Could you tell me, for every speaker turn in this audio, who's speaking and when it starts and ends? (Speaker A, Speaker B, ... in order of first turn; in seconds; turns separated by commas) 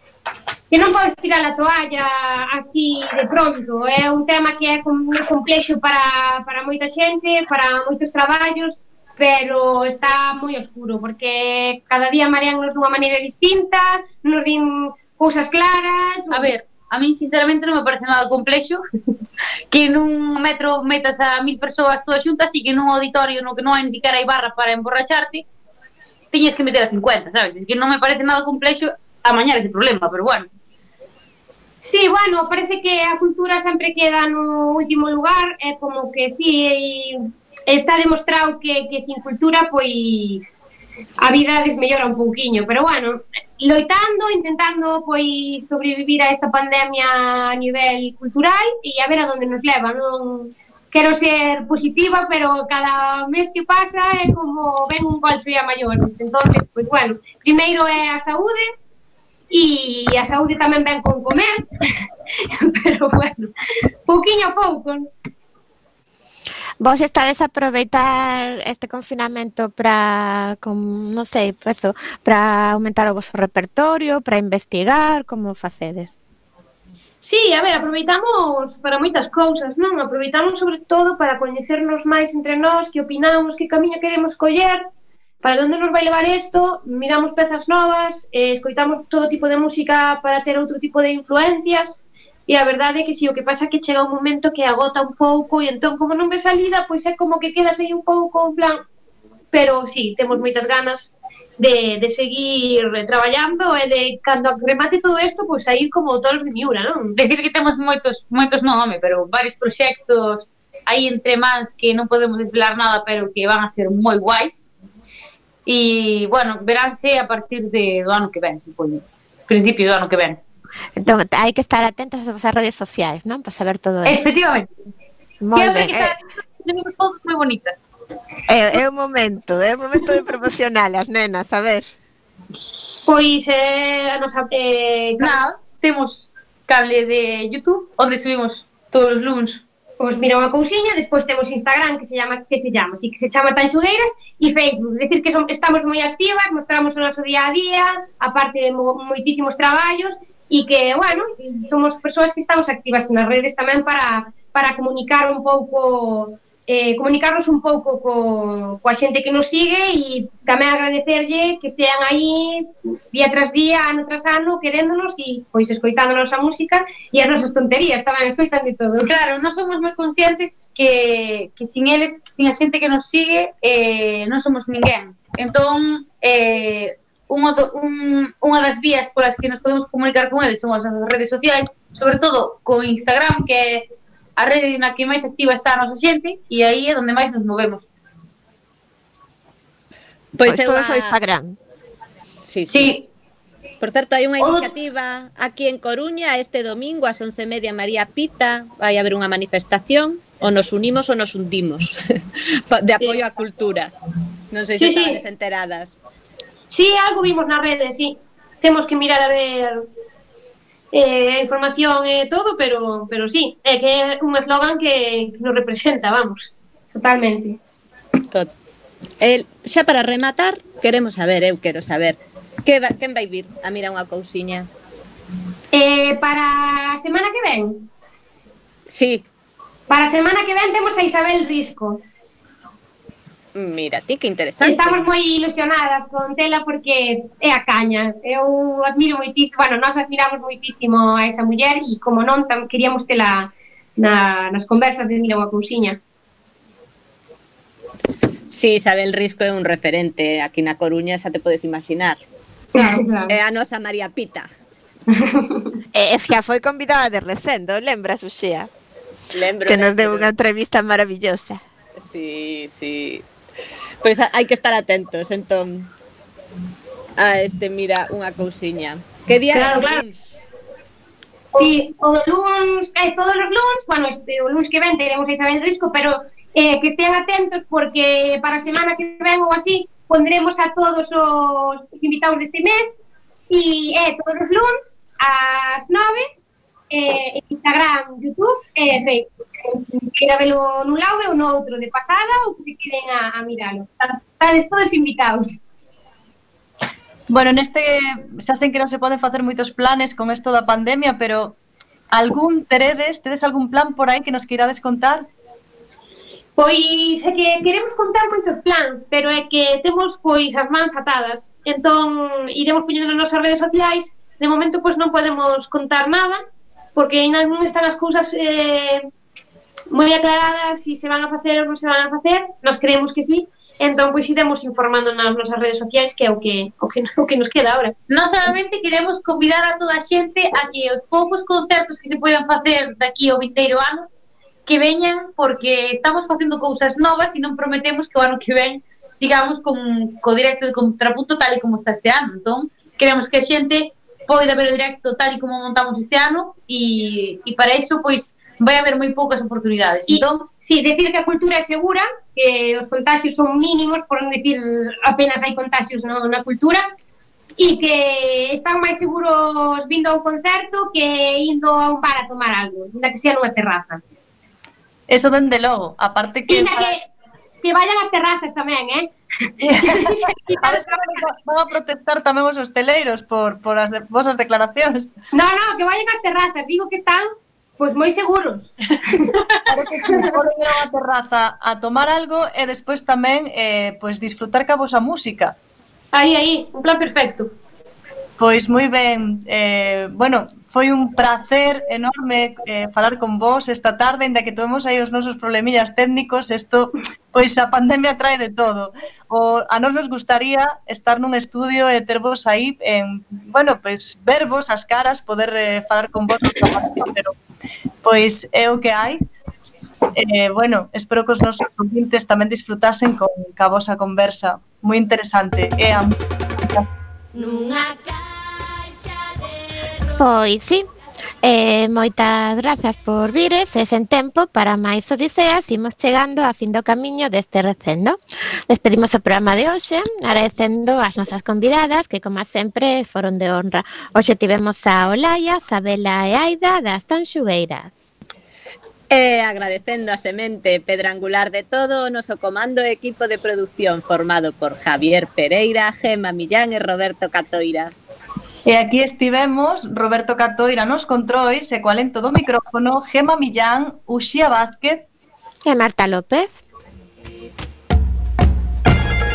Speaker A: 0.7-16.5, Speaker B: 16.3-18.8, Speaker B: 19.7-25.4, Speaker B: 26.3-30.5, Speaker A: 31.8-40.6, Speaker A: 41.2-58.7, Speaker A: 59.5-61.9, Speaker A: 62.5-63.5, Speaker A: 64.1-65.1, Speaker C: 66.8-76.1, Speaker A: 77.2-84.9, Speaker A: 85.4-98.8, Speaker A: 99.5-107.2, Speaker B: 107.2-114.7, Speaker B: 115.7-120.4, Speaker C: 121.0-124.2, Speaker B: 124.0-124.7, Speaker C: 125.4-126.2, Speaker B: 125.5-127.8, Speaker C: 128.5-131.9, Speaker A: 133.1-135.4, Speaker B: 135.2-139.6, Speaker A: 140.0-169.1, Speaker B: 169.0-187.9, Speaker D: 190.4-191.2, Speaker C: 190.4-191.6, Speaker D: 192.4-193.0, Speaker B: 192.7-193.1, Speaker D: 193.8-202.0, Speaker B: 194.4-194.7, Speaker D: 202.7-203.9, Speaker D: 204.5-205.9, Speaker A: 204.8-205.2, Speaker A: 206.7-209.8, Speaker A: 210.9-217.6, Speaker D: 219.2-224.7, Speaker A: 225.7-227.9, Speaker D: 228.9-229.2, Speaker A: 229.9-232.0, Speaker D: 233.6-235.1, Speaker A: 234.6-246.0, Speaker D: 248.5-252.2, Speaker A: 252.8-253.3, Speaker D: 253.3-254.5, Speaker A: 255.1-255.8, Speaker C: 255.9-258.7, Speaker D: 259.3-260.3, Speaker C: 259.7-261.6, Speaker D: 262.0-263.2, Speaker D: 264.0-265.9, Speaker D: 267.2-270.3, Speaker A: 269.5-270.0, Speaker A: 271.5-283.0, Speaker A: 283.5-286.3, Speaker A: 286.9-295.6, Speaker E: 297.3-301.6, Speaker E: 302.1-305.3, Speaker A: 306.6-316.4, Speaker A: 316.9-319.1, Speaker A: 319.9-327.9, Speaker B: 328.1-334.1, Speaker B: 334.7-350.5, Speaker A: 350.1-356.9, Speaker A: 357.6-364.0, Speaker E: 365.1-366.9, Speaker A: 366.5-367.1, Speaker A: 367.6-371.3, Speaker E: 369.6-375.1, Speaker A: 375.3-380.4, Speaker E: 379.7-385.6, Speaker A: 386.1-387.5, Speaker E: 388.4-407.4, Speaker E: 408.0-409.2, Speaker E: 410.1-416.1, Speaker F: 417.3-420.2, Speaker C: 420.2-420.8, Speaker C: 421.4-438.1, Speaker D: 439.1-447.9, Speaker E: 448.7-455.1, Speaker C: 455.6-456.6